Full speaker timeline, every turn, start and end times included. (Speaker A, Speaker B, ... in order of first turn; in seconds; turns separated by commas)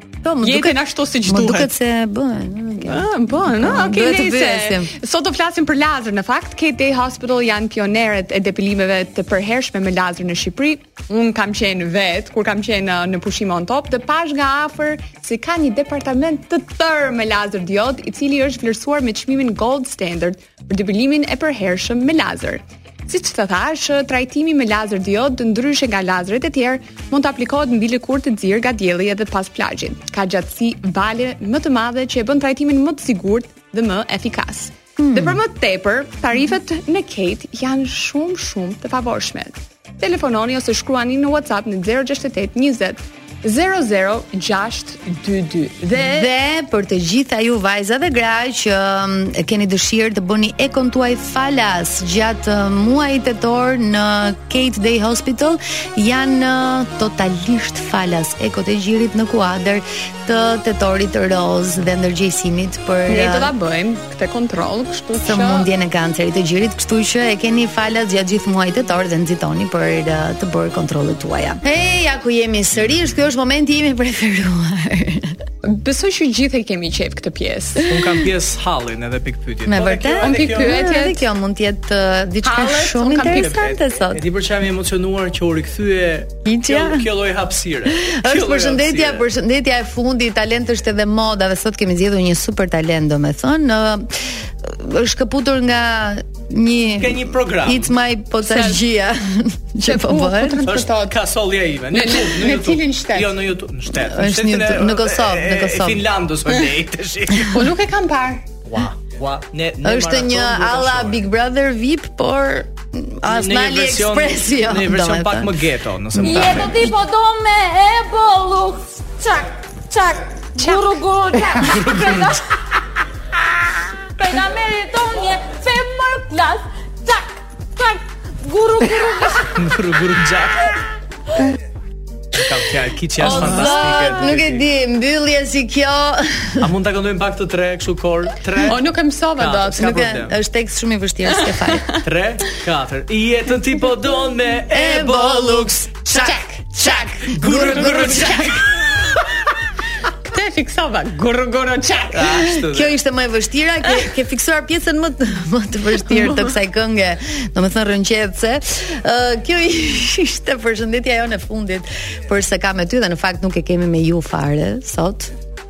Speaker A: 0.2-4.9, Speaker B: 0.4-1.7, Speaker B: 2.8-46.3, Speaker A: 35.0-35.4, Speaker A: 45.9-63.5, Speaker B: 63.1-65.7, Speaker A: 65.2-75.4, Speaker B: 75.6-77.8, Speaker C: 77.8-80.8, Speaker A: 79.7-84.2, Speaker B: 80.2-81.2, Speaker B: 82.4-83.5, Speaker C: 83.2-89.3, Speaker A: 86.4-87.1, Speaker A: 87.8-100.6, Speaker C: 97.0-97.9, Speaker B: 98.4-98.8, Speaker B: 99.8-101.1, Speaker C: 100.7-107.7, Speaker B: 101.9-103.3, Speaker A: 103.9-106.0, Speaker B: 107.5-108.4, Speaker C: 108.7-111.2, Speaker A: 109.8-115.5, Speaker C: 113.2-116.8, Speaker A: 116.1-116.7, Speaker D: 116.2-122.4, Speaker C: 121.6-122.4, Speaker D: 124.2-129.5, Speaker C: 129.4-130.8, Speaker C: 132.3-134.7, Speaker A: 133.2-136.7, Speaker C: 136.6-140.4, Speaker B: 138.7-139.9, Speaker A: 139.8-141.9, Speaker C: 142.0-146.2, Speaker A: 144.7-146.2, Speaker B: 146.1-148.5, Speaker C: 146.8-148.9, Speaker A: 147.3-148.4, Speaker B: 150.1-152.4, Speaker C: 152.1-153.0, Speaker A: 152.3-165.3